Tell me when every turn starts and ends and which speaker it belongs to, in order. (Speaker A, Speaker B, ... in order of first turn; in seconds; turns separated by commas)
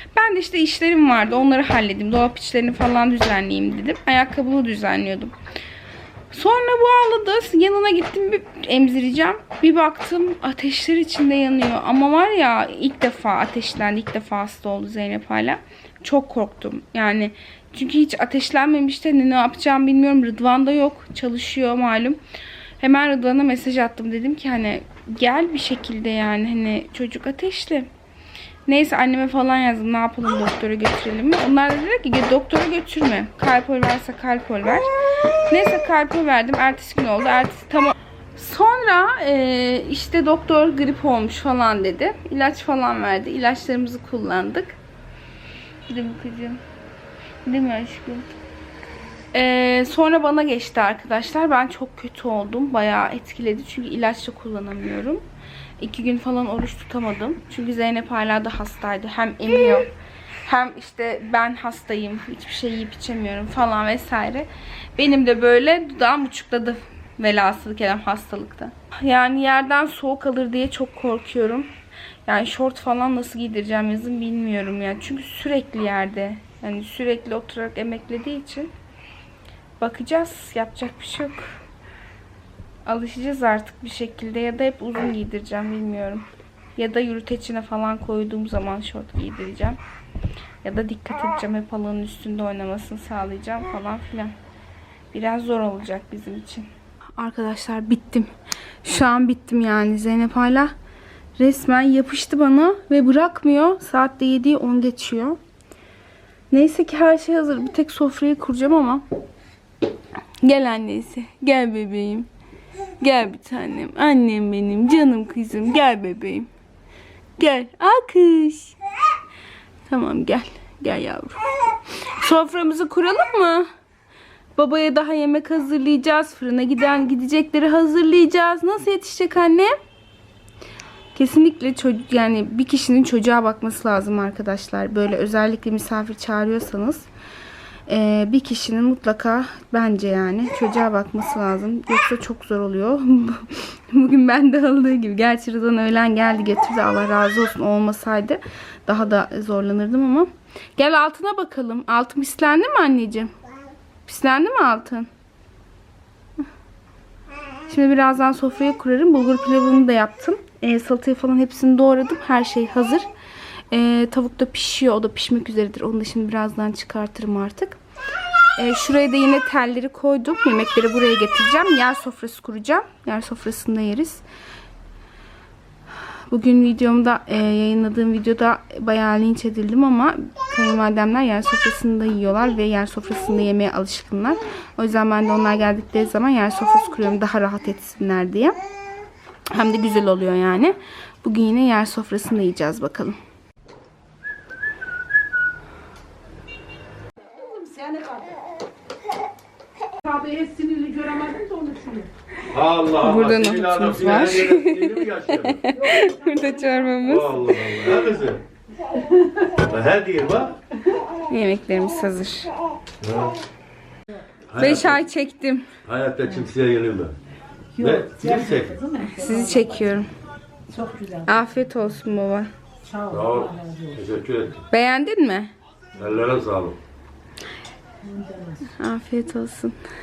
Speaker A: 0.1-5.3, Speaker A: 6.3-22.2, Speaker A: 22.8-27.9, Speaker A: 28.7-34.9, Speaker A: 35.5-44.8, Speaker A: 45.9-46.6, Speaker A: 47.5-48.3, Speaker A: 49.3-55.2, Speaker A: 55.8-59.9, Speaker A: 60.5-71.7, Speaker A: 72.3-78.7, Speaker A: 79.8-81.5, Speaker A: 82.9-89.8, Speaker A: 90.6-94.3, Speaker A: 95.1-98.3, Speaker A: 98.8-100.7, Speaker A: 101.4-105.4, Speaker A: 106.5-109.0, Speaker A: 110.4-112.3, Speaker A: 113.0-116.5, Speaker A: 117.4-118.8, Speaker A: 119.9-123.7, Speaker A: 124.6-129.7, Speaker A: 131.2-137.1, Speaker A: 137.9-153.3, Speaker A: 154.1-155.1, Speaker A: 157.7-163.1, Speaker A: 163.7-167.8, Speaker A: 168.6-174.2, Speaker A: 176.3-188.6, Speaker A: 189.5-193.2, Speaker B: 197.3-198.4, Speaker B: 200.0-202.1, Speaker C: 202.5-205.7, Speaker A: 203.0-207.4, Speaker B: 205.8-206.9, Speaker C: 207.0-208.4, Speaker B: 209.0-209.4, Speaker C: 209.5-210.6, Speaker A: 211.3-212.5, Speaker C: 213.0-213.4, Speaker C: 214.5-215.0, Speaker A: 214.6-215.7, Speaker C: 215.8-217.2, Speaker B: 217.8-219.8, Speaker C: 217.8-218.8, Speaker A: 219.1-220.1, Speaker B: 220.7-221.3, Speaker A: 221.3-222.5, Speaker B: 222.8-224.0, Speaker C: 223.1-224.7, Speaker A: 224.7-225.5, Speaker C: 226.0-226.8, Speaker B: 228.0-228.7, Speaker A: 228.7-229.8